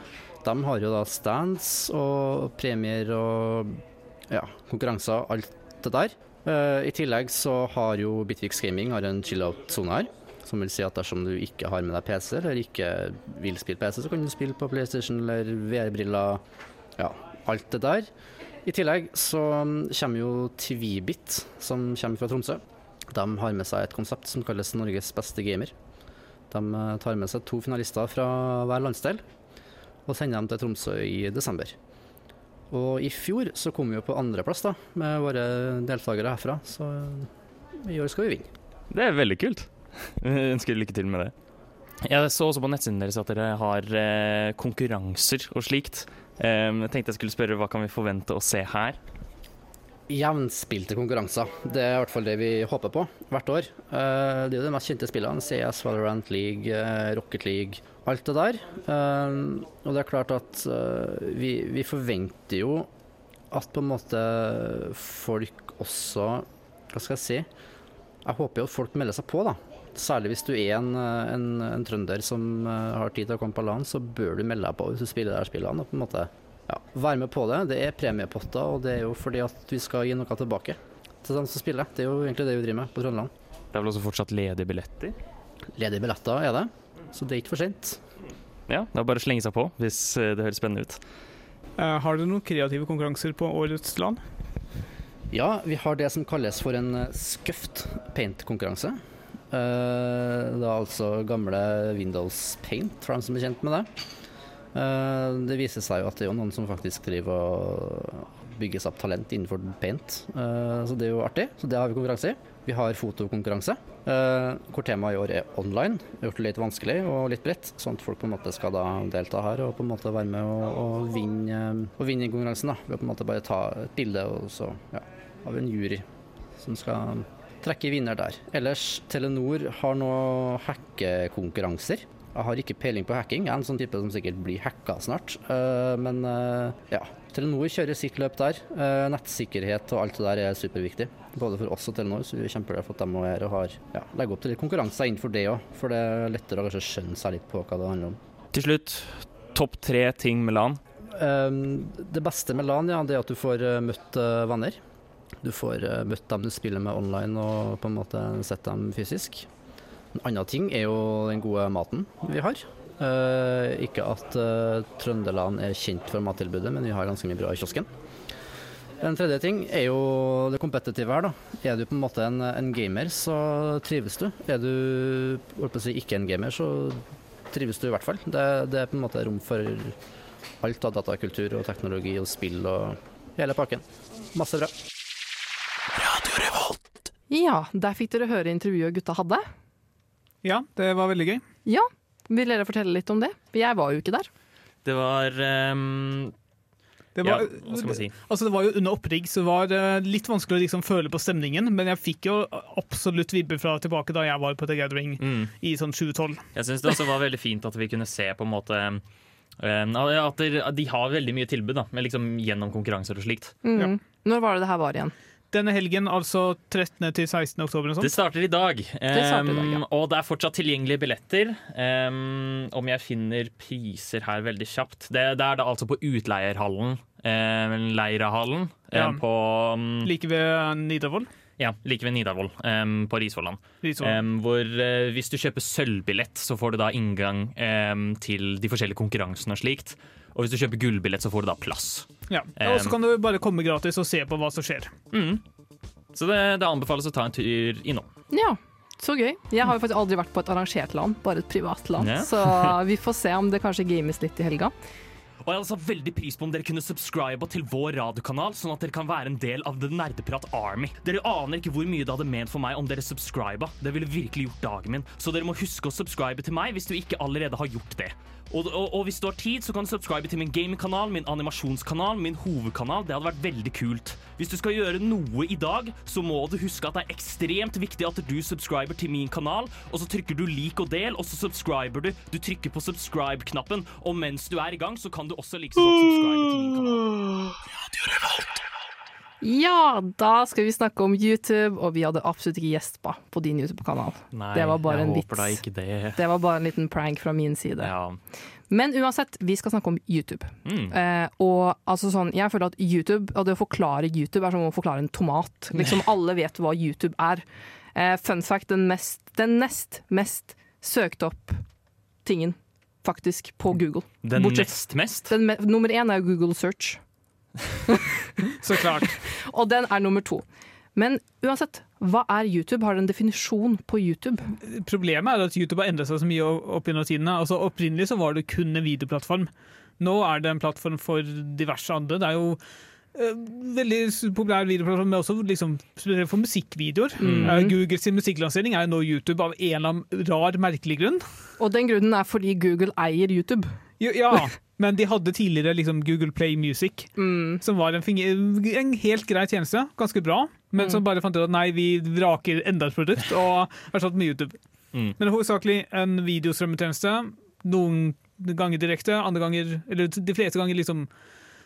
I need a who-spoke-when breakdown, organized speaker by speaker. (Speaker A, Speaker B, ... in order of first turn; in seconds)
Speaker A: 0.4-16.4, 17.0-18.1, 18.6-25.7, 26.5-29.2, 30.1-31.8, 32.7-38.5, 50.1-62.9, 63.5-67.5, 68.2-83.3, 85.8-88.0, 95.3-99.0, 99.5-103.9, 104.7-126.0, 126.6-148.2, 151.1-154.8, 155.4-159.5, 160.1-167.9, 169.0-179.9, 180.6-184.7
Speaker B: 38.9-41.3, 42.0-49.0, 83.7-85.1, 88.7-91.0, 148.5-150.8, 194.8-196.3, 197.2-198.1, 205.2-205.5, 206.5-209.0, 209.6-213.5, 218.0-230.1, 231.6-242.9, 245.1-245.4, 246.1-248.1, 252.0-252.8, 255.4-287.1, 294.3-296.2, 297.8-298.2, 300.6-300.9, 314.2-315.3, 337.2-337.5
Speaker C: 91.8-94.2, 190.4-191.4, 197.2-206.4, 215.5-218.1, 228.9-229.2, 230.0-231.3, 233.8-234.2, 242.3-244.9, 318.6-319.1, 324.6-332.6, 333.1-341.2, 344.0-354.6, 355.2-361.1
Speaker D: 187.3-189.4, 191.7-194.3, 213.6-215.1, 219.1-219.8, 248.3-254.7, 289.4-295.6, 296.1-297.9, 298.7-311.6, 312.2-317.0, 319.1-320.4, 320.9-324.5, 337.2-337.7, 341.6-343.7, 347.2-347.6, 350.8-351.0